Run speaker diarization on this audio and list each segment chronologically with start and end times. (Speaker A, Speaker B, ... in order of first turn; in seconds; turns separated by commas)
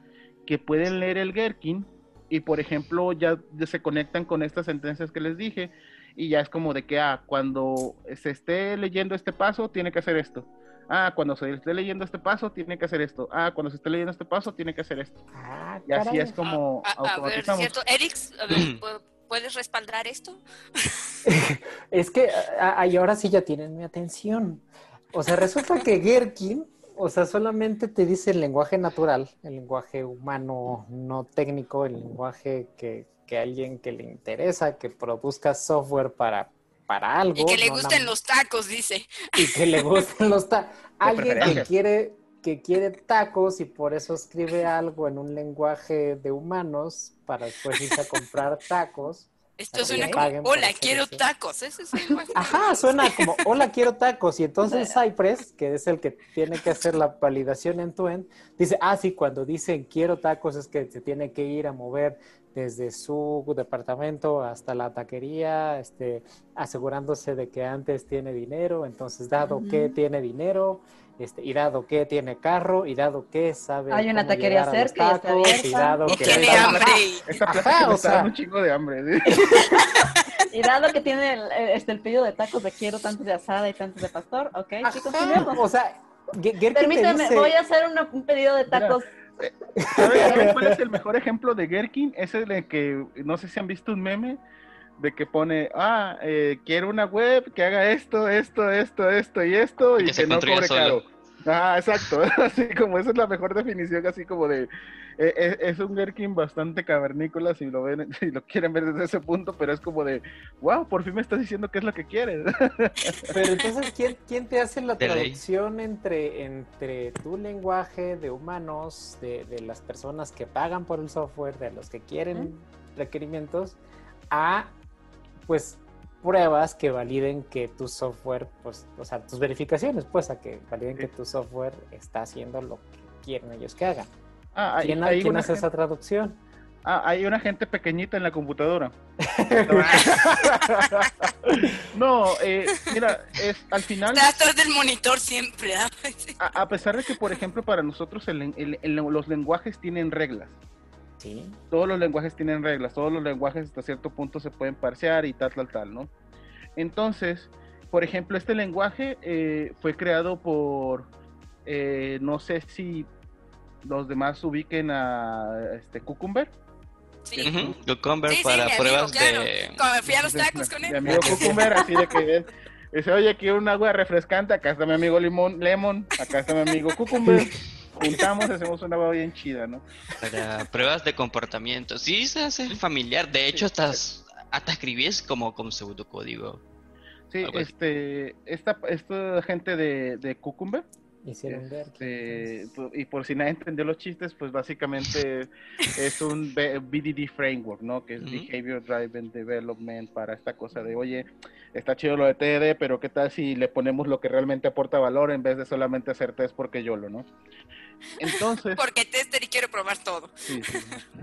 Speaker A: 0.5-15.2, Speaker B: 15.3-16.4, Speaker A: 15.8-17.7, Speaker C: 16.4-20.9, Speaker D: 18.5-18.8, Speaker B: 21.2-38.1, Speaker C: 37.4-39.8, Speaker B: 39.4-51.2, Speaker A: 41.0-41.7, Speaker D: 41.4-41.6, Speaker C: 49.6-53.4, Speaker E: 49.9-50.2, Speaker B: 52.3-78.3, Speaker E: 54.6-54.9, Speaker E: 69.4-70.0, Speaker E: 73.9-77.0, Speaker C: 76.0-77.3, Speaker A: 77.3-79.7, Speaker E: 79.5-85.6, Speaker C: 79.7-80.4, Speaker B: 84.8-87.5, Speaker E: 86.7-89.1, Speaker A: 88.7-94.4, Speaker B: 89.8-90.8, Speaker E: 90.0-90.5, Speaker A: 95.0-113.3, Speaker D: 100.0-101.0, Speaker B: 113.3-123.8, Speaker D: 115.0-115.4, Speaker B: 124.3-124.7, Speaker B: 125.5-134.1, Speaker A: 134.5-135.7, Speaker B: 134.8-136.4, Speaker A: 136.8-138.9, Speaker B: 139.2-140.5, Speaker A: 139.6-144.3, Speaker C: 144.1-146.4, Speaker A: 146.4-150.6, Speaker B: 151.2-151.6, Speaker A: 151.7-156.1, Speaker A: 156.8-161.1, Speaker A: 161.7-163.1, Speaker A: 163.8-166.5, Speaker C: 167.2-167.5, Speaker A: 167.3-167.8, Speaker D: 167.4-169.8, Speaker C: 168.3-171.8, Speaker A: 170.1-179.8, Speaker D: 171.0-171.7, Speaker D: 180.2-186.6, Speaker A: 183.5-184.0, Speaker A: 187.3-190.8, Speaker D: 187.4-187.7, Speaker B: 191.2-192.5, Speaker A: 191.5-207.3, Speaker D: 198.2-198.5, Speaker A: 208.2-208.8, Speaker C: 208.2-210.8, Speaker A: 210.4-211.1